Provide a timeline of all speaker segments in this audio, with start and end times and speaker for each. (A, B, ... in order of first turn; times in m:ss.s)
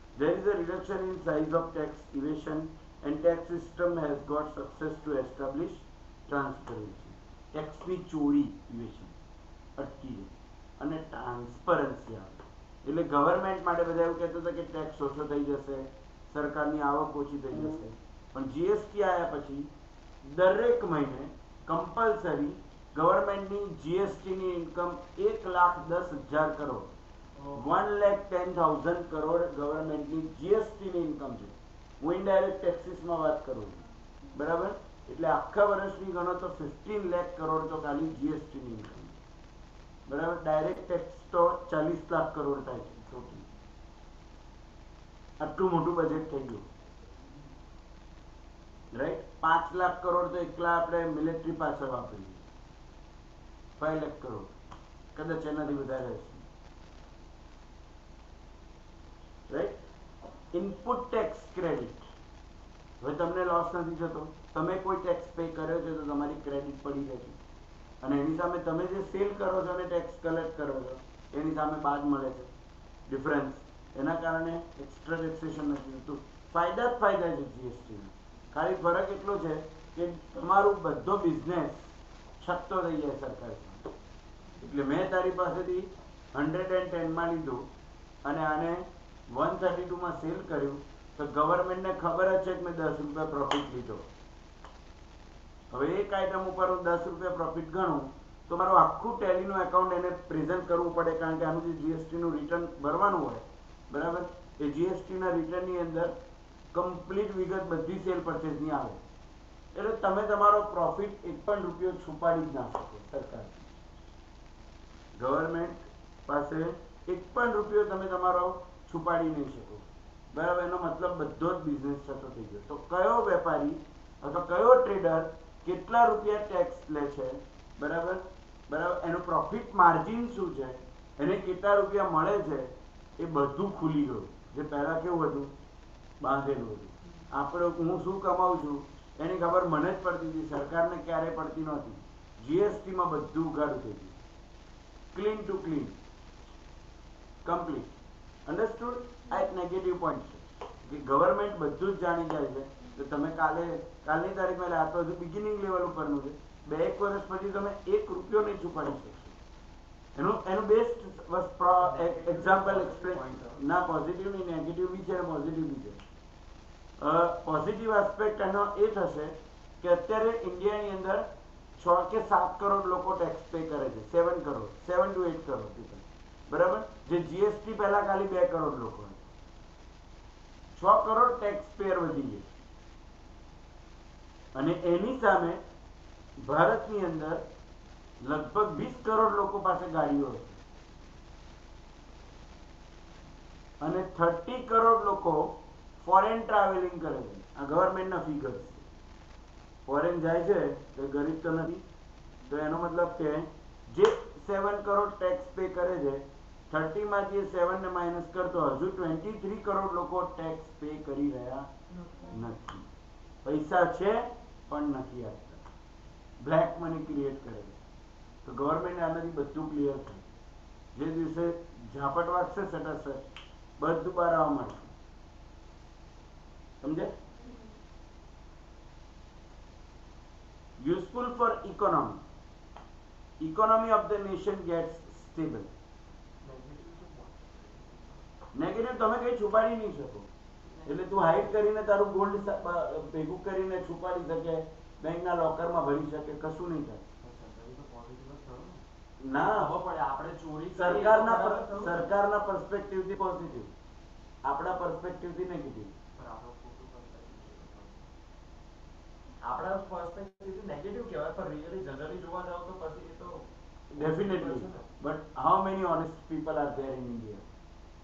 0:00.2-0:09.2 A
0:09.8-0:19.7 A
0:20.2-0:26.9 A
0:27.4-0:27.6 B
0:27.5-0:33.8 A
0:34.3-0:39.2 A
0:40.1-0:43.5 A
0:45.4-0:46.6 A
0:48.9-0:52.4 A
0:53.8-0:54.5 A
0:55.1-0:56.4 A
0:59.5-0:59.8 A
1:00.5-1:02.1 A
1:03.0-1:07.4 A
1:08.0-1:12.5 A
1:13.1-1:23.9 A
1:24.6-1:27.7 A
1:28.2-1:34.1 A
1:35.7-1:46.1 A
1:46.7-1:49.0 A
1:49.7-1:53.7 A
1:55.1-2:15.5 A
2:16.2-2:24.2 A
2:25.1-2:26.0 A
2:27.4-2:27.9 A
2:28.4-2:39.4 A
2:40.2-2:46.0 A
2:41.8-2:43.6 B
2:47.0-2:59.2 A
3:00.7-3:02.4 A
3:04.5-3:05.6 A
3:06.4-3:07.4 A
3:08.2-3:10.6 A
3:13.8-3:18.8 A
3:19.8-3:21.8 A
3:22.5-3:31.7 A
3:32.3-3:32.9 A
3:33.4-3:35.6 A
3:36.4-3:37.8 A
3:38.4-3:40.3 A
3:40.9-3:43.2 A
3:43.8-3:44.9 A
3:46.8-3:47.2 A
3:50.8-3:52.2 A
3:53.4-3:55.7 A
3:56.4-3:58.3 B
3:58.5-4:00.3 A
4:00.6-4:01.4 B
4:00.8-4:07.0 A
4:07.2-4:12.1 B
4:09.2-4:09.7 A
4:10.8-4:13.7 A
4:14.4-4:15.9 A
4:16.2-4:18.1 B
4:19.4-4:24.9 B
4:23.9-4:27.4 A